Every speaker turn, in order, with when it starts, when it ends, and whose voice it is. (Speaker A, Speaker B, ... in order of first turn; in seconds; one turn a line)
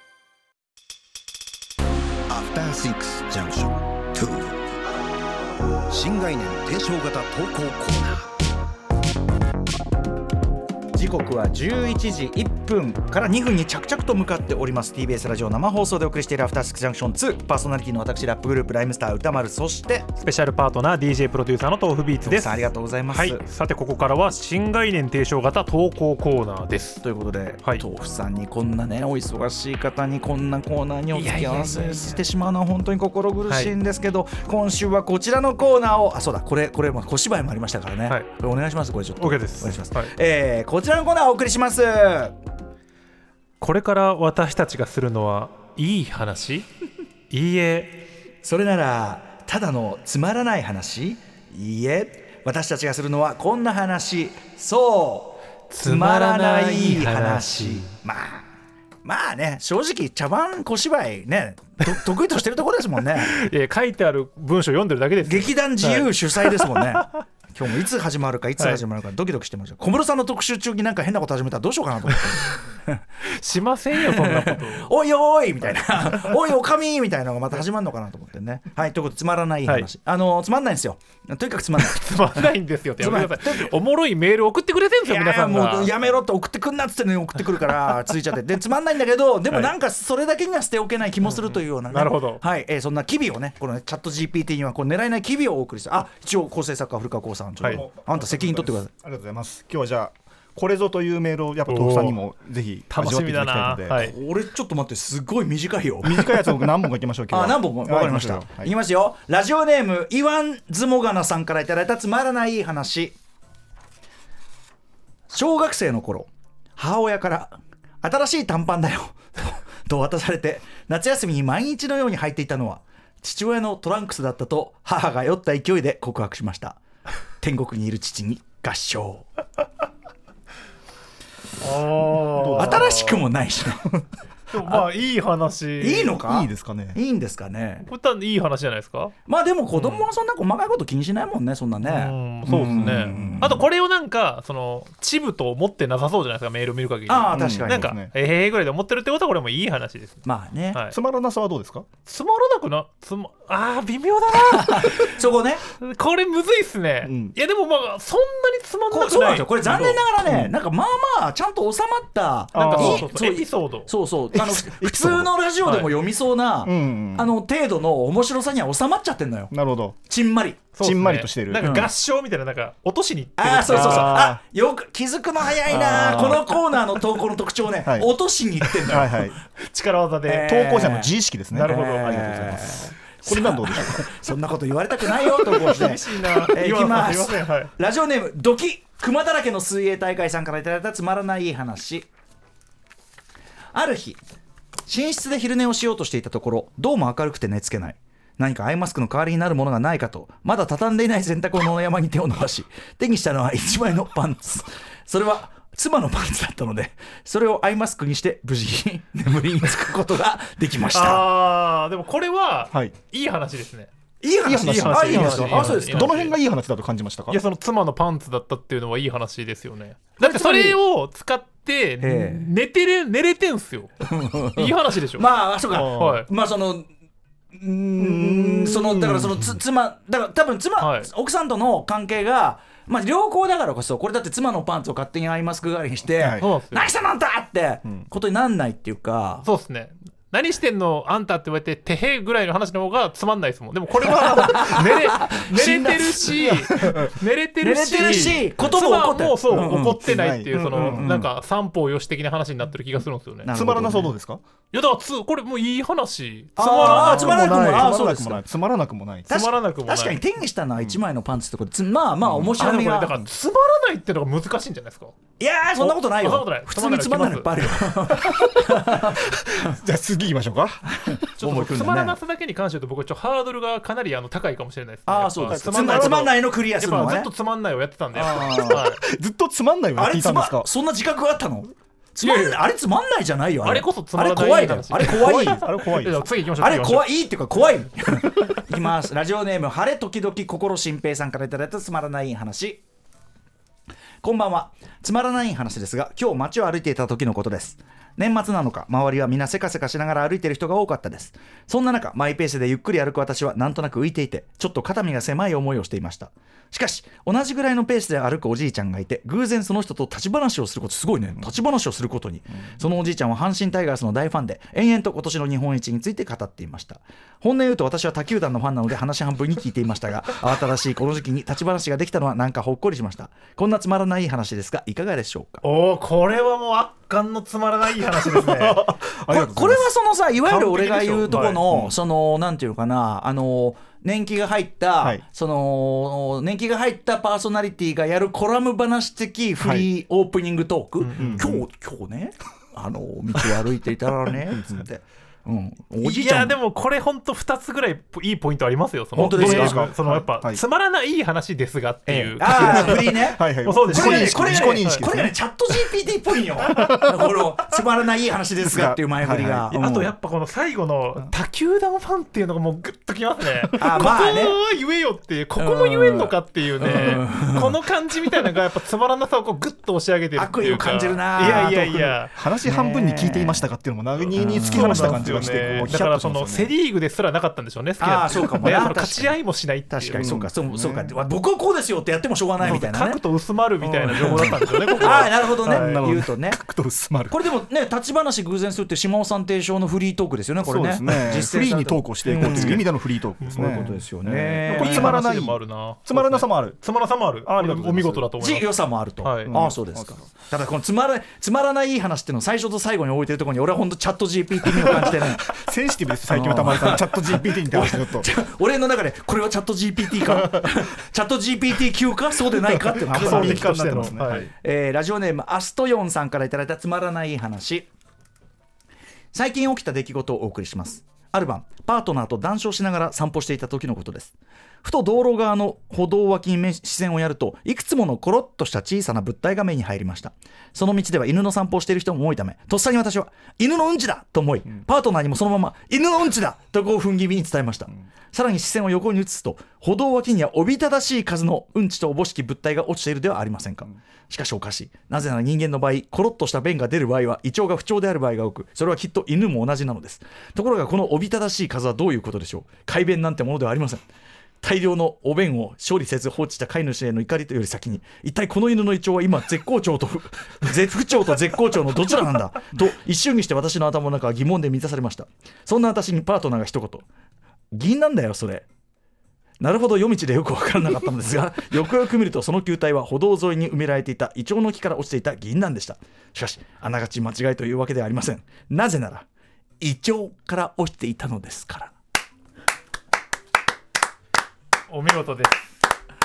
Speaker A: 2.3-4.5
Speaker A: 5.9-8.2
Speaker B: 10.9-20.1
Speaker C: 20.2-27.0
Speaker B: 22.2-23.4
Speaker B: 27.0-42.4
Speaker C: 31.1-32.2
Speaker C: 33.5-33.8
Speaker C: 39.2-40.1
Speaker C: 43.6-46.7
Speaker C: 47.3-48.0
Speaker B: 48.4-58.5
Speaker C: 55.7-57.9
Speaker B: 59.0-63.3
Speaker C: 63.2-67.0
Speaker B: 65.2-73.0
Speaker C: 73.2-74.9
Speaker B: 74.0-83.7
Speaker C: 81.8-86.0
Speaker B: 85.0-98.9
Speaker C: 91.2-92.4
Speaker D: 97.7-104.1
Speaker C: 101.7-102.2
Speaker C: 102.9-104.2
Speaker B: 104.0-106.5
Speaker D: 106.0-108.7
Speaker B: 107.3-113.2
Speaker B: 115.3-126.8
Speaker B: 127.4-129.3
Speaker C: 131.6-133.2
Speaker D: 132.1-132.8
Speaker B: 132.6-134.1
Speaker C: 134.5-136.2
Speaker B: 134.6-134.9
Speaker B: 135.8-137.9
Speaker D: 136.2-137.0
Speaker C: 137.8-139.1
Speaker B: 139.3-143.6
Speaker C: 139.7-140.1
Speaker C: 141.8-150.2
Speaker D: 142.5-143.6
Speaker B: 147.1-148.0
Speaker D: 147.3-148.1
Speaker B: 150.2-150.8
Speaker D: 150.9-151.9
Speaker C: 152.1-155.2
Speaker B: 154.3-155.6
Speaker C: 155.7-160.1
Speaker D: 157.0-157.4
Speaker B: 158.9-169.5
Speaker D: 159.8-160.5
Speaker D: 162.5-163.1
Speaker C: 162.5-163.9
Speaker D: 164.3-165.3
Speaker C: 165.6-165.9
Speaker D: 166.6-167.3
Speaker D: 169.5-170.0
Speaker B: 170.1-170.8
Speaker C: 170.7-174.2
Speaker D: 170.8-171.7
Speaker B: 171.6-171.9
Speaker B: 173.4-179.3
Speaker D: 173.7-174.4
Speaker D: 175.7-176.5
Speaker D: 177.9-178.1
Speaker D: 178.8-179.4
Speaker C: 179.6-180.6
Speaker B: 180.2-192.1
Speaker D: 180.4-181.7
Speaker C: 181.5-182.9
Speaker D: 183.2-184.1
Speaker C: 185.3-187.7
Speaker B: 193.7-194.2
Speaker B: 194.9-211.3
Speaker C: 210.9-213.9
Speaker B: 214.2-216.2
Speaker D: 214.4-217.4
Speaker C: 214.6-216.4
Speaker C: 217.3-225.3
Speaker B: 220.2-220.8
Speaker B: 222.0-222.5
Speaker B: 224.0-226.9
Speaker D: 225.7-226.1
Speaker C: 225.9-226.3
Speaker B: 227.6-239.5
Speaker D: 228.0-229.5
Speaker C: 230.8-231.1
Speaker D: 236.2-236.5
Speaker C: 236.4-236.9
Speaker C: 239.4-253.5
Speaker B: 244.3-246.5
Speaker D: 246.7-247.1
Speaker B: 247.6-251.3
Speaker D: 248.0-248.3
Speaker D: 250.0-251.1
Speaker B: 253.4-254.1
Speaker D: 253.5-254.4
Speaker C: 254.7-257.9
Speaker B: 256.6-258.4
Speaker D: 256.9-259.3
Speaker C: 259.3-260.2
Speaker B: 259.3-263.2
Speaker D: 262.3-262.5
Speaker C: 262.6-265.2
Speaker B: 265.4-269.8
Speaker C: 265.8-267.6
Speaker D: 268.9-271.2
Speaker B: 271.1-272.2
Speaker C: 271.4-279.0
Speaker B: 275.1-277.3
Speaker D: 275.5-276.3
Speaker B: 278.1-278.9
Speaker D: 278.6-280.7
Speaker B: 280.0-285.7
Speaker C: 282.2-282.6
Speaker C: 283.6-287.1
Speaker D: 285.0-286.2
Speaker B: 286.6-292.8
Speaker B: 294.2-325.6
Speaker C: 325.6-328.9
Speaker D: 328.4-329.9
Speaker B: 329.2-346.6
Speaker C: 330.4-331.6
Speaker D: 331.3-331.9
Speaker D: 339.6-339.9
Speaker C: 341.0-341.4
Speaker D: 341.2-341.6
Speaker C: 346.0-355.1
Speaker B: 349.2-349.9
Speaker D: 349.2-350.6
Speaker B: 352.1-360.1
Speaker D: 352.5-355.3
Speaker C: 356.6-356.9
Speaker D: 356.7-357.1
Speaker D: 358.6-359.7
Speaker C: 359.7-372.3
Speaker B: 363.8-364.6
Speaker B: 365.6-367.8
Speaker B: 370.4-371.9
Speaker D: 371.4-376.7
Speaker B: 372.6-373.7
Speaker B: 374.3-375.9
Speaker C: 374.4-380.3
Speaker B: 378.0-379.4
Speaker D: 378.4-378.7
Speaker B: 379.9-383.2
Speaker D: 380.2-381.1
Speaker C: 382.6-386.0
Speaker D: 383.8-387.4
Speaker B: 384.3-386.6
Speaker B: 387.3-392.9
Speaker D: 390.6-396.8
Speaker C: 392.3-392.8
Speaker C: 393.4-393.9
Speaker B: 393.6-395.2
Speaker C: 394.7-398.7
Speaker D: 397.4-398.3
Speaker B: 398.4-405.6
Speaker C: 399.2-399.6
Speaker D: 399.5-400.3
Speaker D: 404.7-408.3
Speaker B: 406.3-417.9
Speaker D: 412.7-414.5
Speaker C: 413.1-414.5
Speaker B: 419.3-454.0
Speaker B: 454.6-467.1
Speaker B: 467.7-468.7
Speaker B: 469.6-479.3
Speaker B: 479.8-481.9
Speaker C: 484.9-485.7